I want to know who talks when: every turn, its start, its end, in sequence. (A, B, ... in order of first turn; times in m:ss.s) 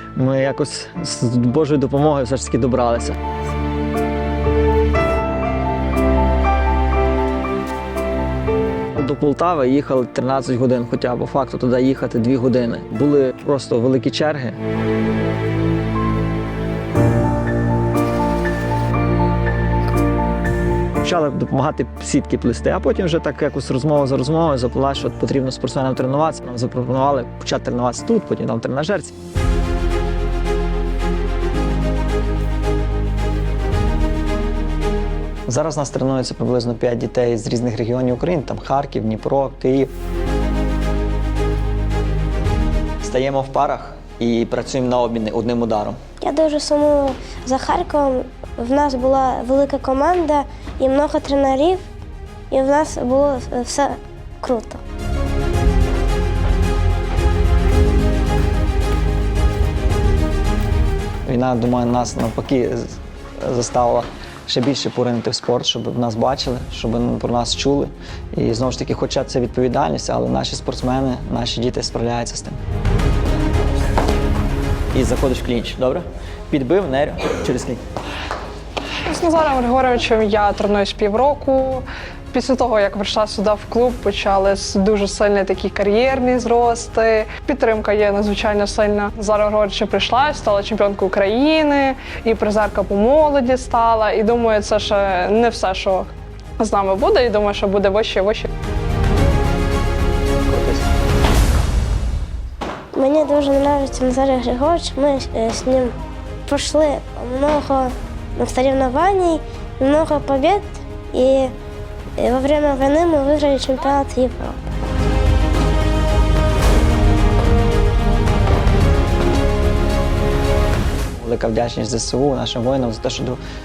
0:00.2-0:03.2 A
0:08.9-0:14.6 A
0:21.0-0:29.1 A
0:35.5-0:39.9 A
0:43.0-0:46.1 A
0:46.2-0:51.8 B
0:52.5-0:54.8 B
1:01.2-1:12.6 A
1:14.9-1:17.8 A
1:19.0-1:38.5 C
1:40.5-1:40.8 A
1:42.9-1:51.5 B
1:52.2-1:54.6 B
2:01.0-2:03.4 A